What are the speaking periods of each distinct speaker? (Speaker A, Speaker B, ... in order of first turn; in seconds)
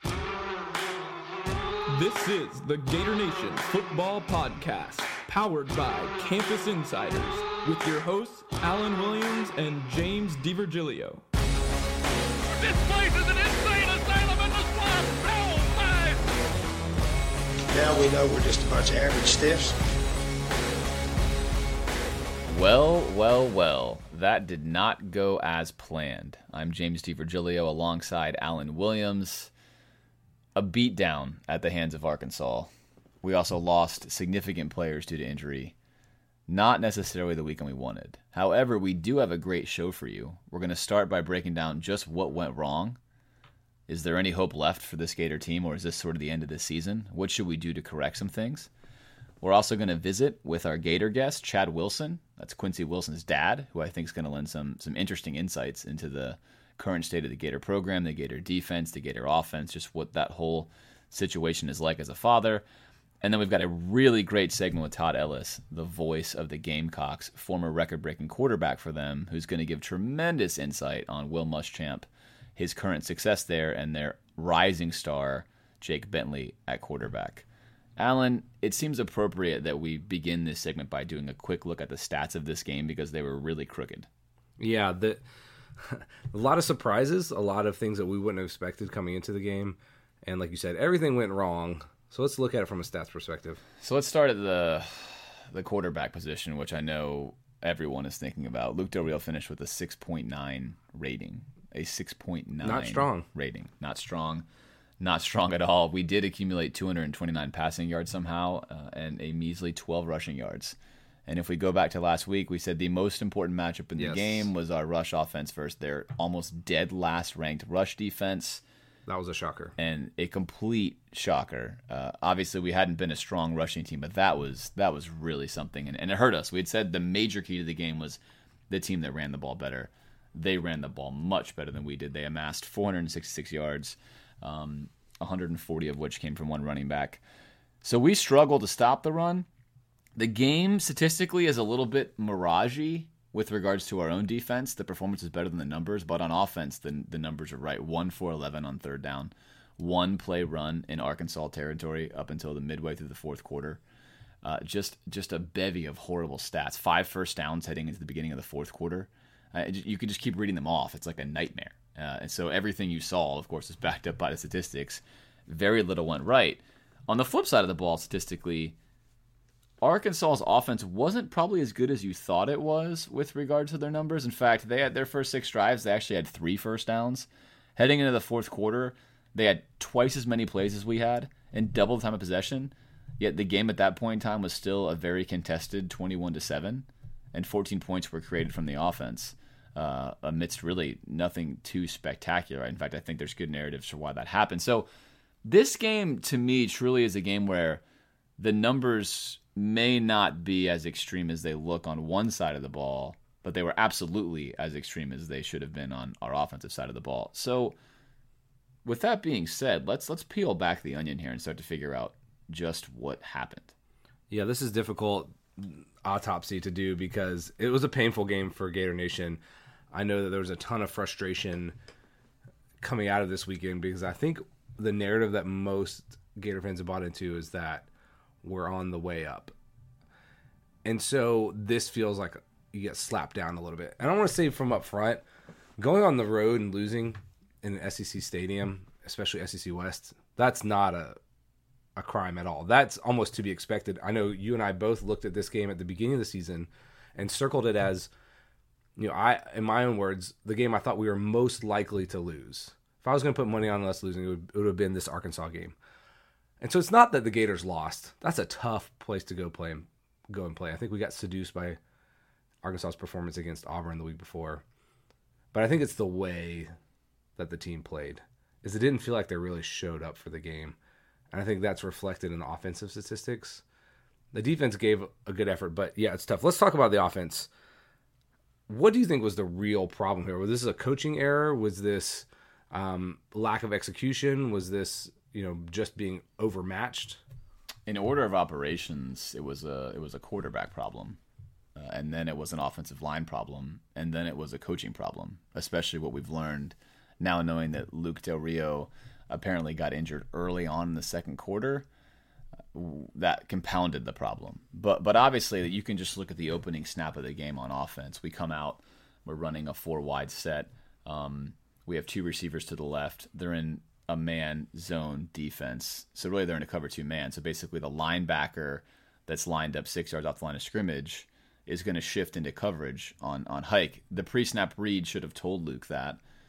Speaker A: 1.9-11.2
Speaker B: 12.5-16.2
Speaker C: 17.7-19.8
Speaker D: 22.5-29.5, 30.6-32.7, 33.2-35.7, 36.5-43.0, 43.9-48.7, 49.4-62.6, 63.2-77.5, 78.0-84.1, 93.8-104.5, 105.0-110.8, 111.3-118.6, 119.8-137.2, 137.8-139.5, 140.2-153.8, 154.4-168.8, 169.8-194.9, 195.4-197.8, 198.4-207.8, 208.8-213.7, 287.9-291.2, 291.8-301.9, 302.7-326.2
Speaker E: 84.6-85.2, 85.8-93.6, 102.6-103.3, 114.0-114.5, 119.1-119.7, 214.3-219.4, 219.9-221.8, 222.8-227.9, 228.4-229.5, 230.8-235.2, 235.8-241.2, 242.0-248.1, 249.0-255.8, 256.6-261.8, 262.6-264.6, 265.5-266.7, 267.4-270.8, 271.3-273.6, 274.3-277.5, 278.7-287.2